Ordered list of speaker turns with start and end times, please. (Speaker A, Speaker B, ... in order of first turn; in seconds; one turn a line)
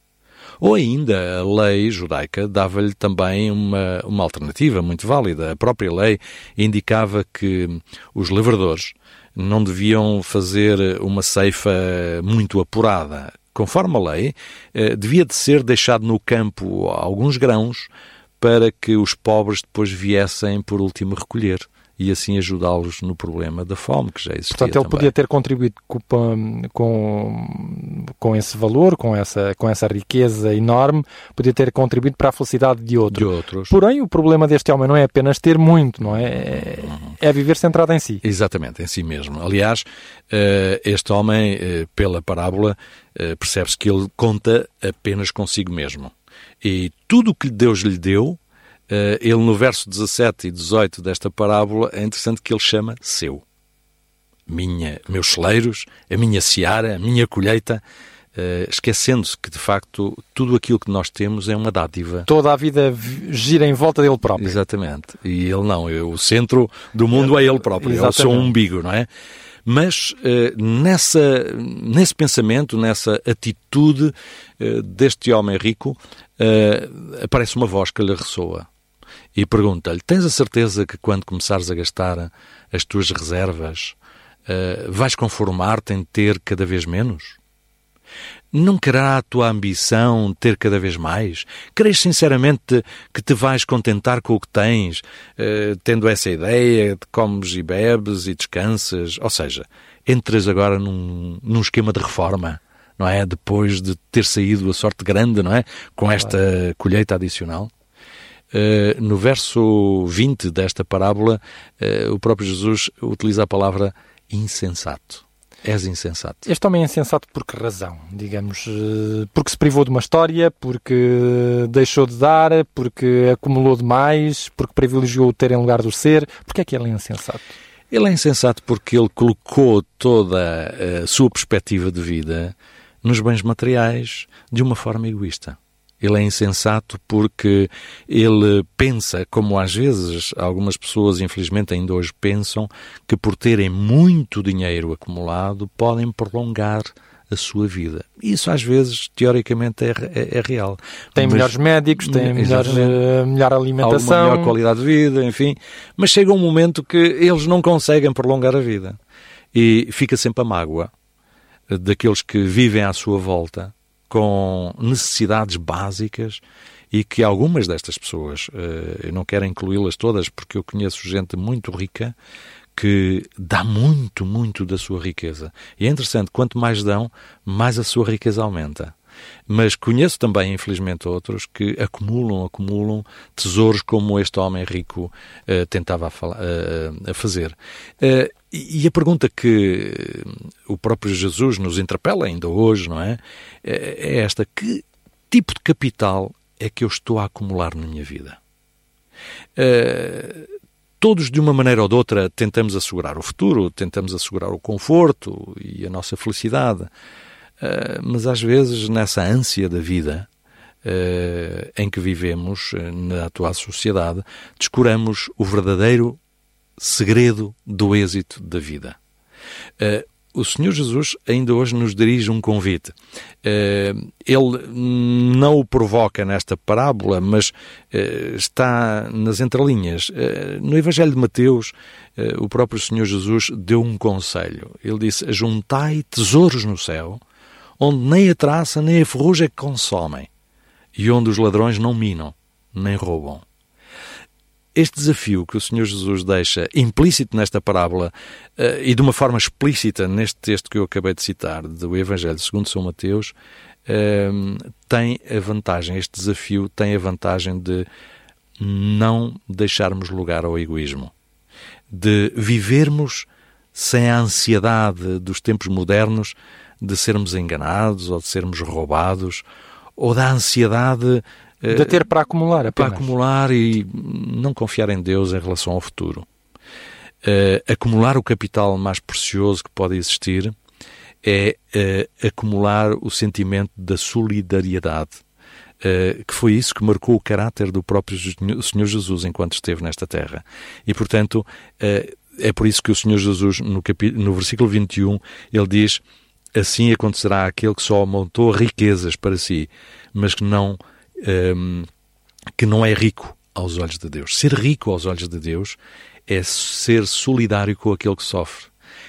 Speaker A: 0.6-25.1
Speaker B: 24.5-38.2
Speaker A: 33.1-33.7
Speaker A: 36.4-37.0
Speaker A: 38.2-53.4
Speaker A: 54.5-57.8
Speaker A: 58.4-62.3
Speaker B: 62.3-64.6
Speaker A: 64.4-69.1
Speaker B: 67.3-68.5
Speaker A: 69.7-78.7
Speaker A: 79.3-87.4
Speaker A: 88.5-107.7
Speaker A: 108.5-116.5
Speaker B: 116.5-127.5
Speaker A: 127.9-153.0
Speaker B: 151.2-154.6
Speaker A: 153.8-159.0
Speaker A: 159.5-160.9
Speaker A: 161.7-172.2
Speaker A: 172.8-178.9
Speaker A: 179.5-198.4
Speaker A: 199.6-200.5
Speaker A: 201.0-206.9
Speaker A: 207.6-210.3
Speaker A: 210.8-216.2
Speaker A: 216.8-219.0
Speaker A: 219.8-237.2
Speaker A: 237.8-240.3
Speaker A: 241.0-243.4
Speaker A: 244.8-253.3
Speaker A: 253.9-257.9
Speaker A: 258.6-261.1
Speaker A: 261.9-269.4
Speaker A: 270.0-272.1
Speaker B: 271.7-273.1
Speaker A: 272.7-276.3
Speaker A: 277.2-280.6
Speaker A: 281.2-285.2
Speaker A: 285.8-296.0
Speaker A: 296.6-301.9
Speaker A: 302.6-308.7